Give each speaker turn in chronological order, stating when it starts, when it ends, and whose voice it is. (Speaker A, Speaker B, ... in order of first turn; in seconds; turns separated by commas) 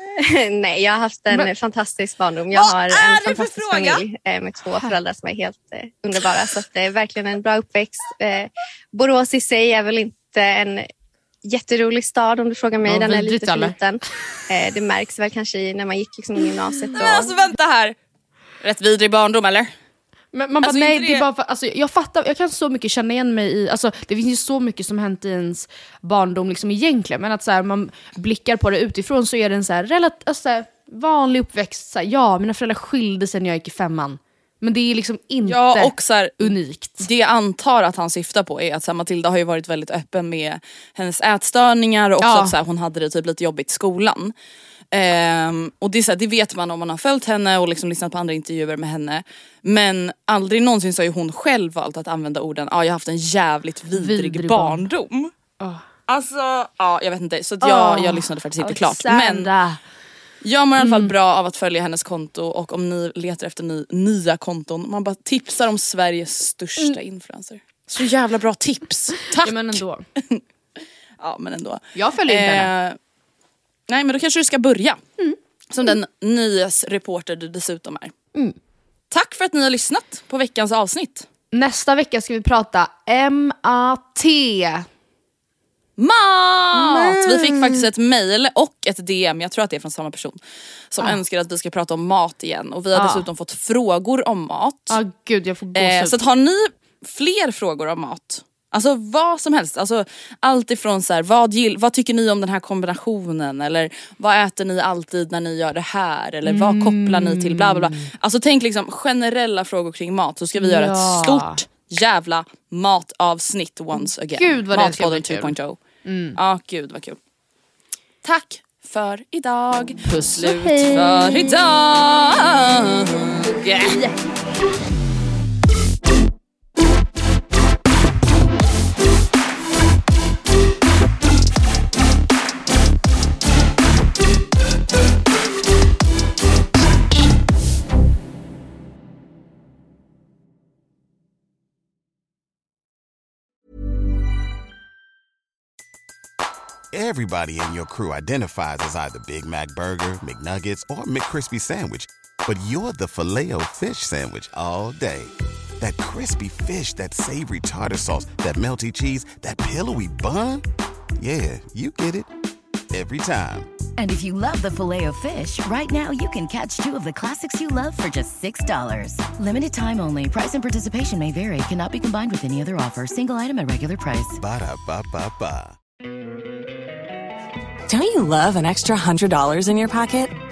Speaker A: 0.2-10.9, Speaker B: 2.5-4.0, Speaker A: 11.4-17.3, Speaker C: 12.8-13.8, Speaker B: 16.9-17.9, Speaker B: 18.6-19.7, Speaker C: 20.3-37.1, Speaker B: 20.6-21.3, Speaker B: 35.5-44.3, Speaker C: 42.2-42.5, Speaker B: 44.9-55.3, Speaker C: 53.9-54.8, Speaker C: 55.6-55.9, Speaker B: 56.1-59.5, Speaker C: 57.6-59.8, Speaker B: 60.4-70.4, Speaker C: 60.8-61.1, Speaker C: 69.2-70.0, Speaker B: 71.2-73.0, Speaker C: 72.0-72.7, Speaker B: 73.9-75.0, Speaker B: 75.7-78.1, Speaker B: 79.1-81.3, Speaker C: 81.5-84.8, Speaker B: 86.0-90.4, Speaker C: 86.7-87.9, Speaker B: 90.9-95.0, Speaker C: 92.9-93.3, Speaker C: 94.9-96.2, Speaker B: 95.8-115.8, Speaker C: 106.5-108.1, Speaker C: 110.6-111.6, Speaker C: 114.0-115.5, Speaker C: 116.0-116.4, Speaker B: 116.4-117.2, Speaker B: 118.2-124.0, Speaker C: 120.1-121.6, Speaker D: 146.9-160.6, Speaker D: 161.2-162.3, Speaker D: 162.9-163.7, Speaker E: 164.0-174.4, Speaker D: 174.4-175.8, Speaker F: 177.9-180.4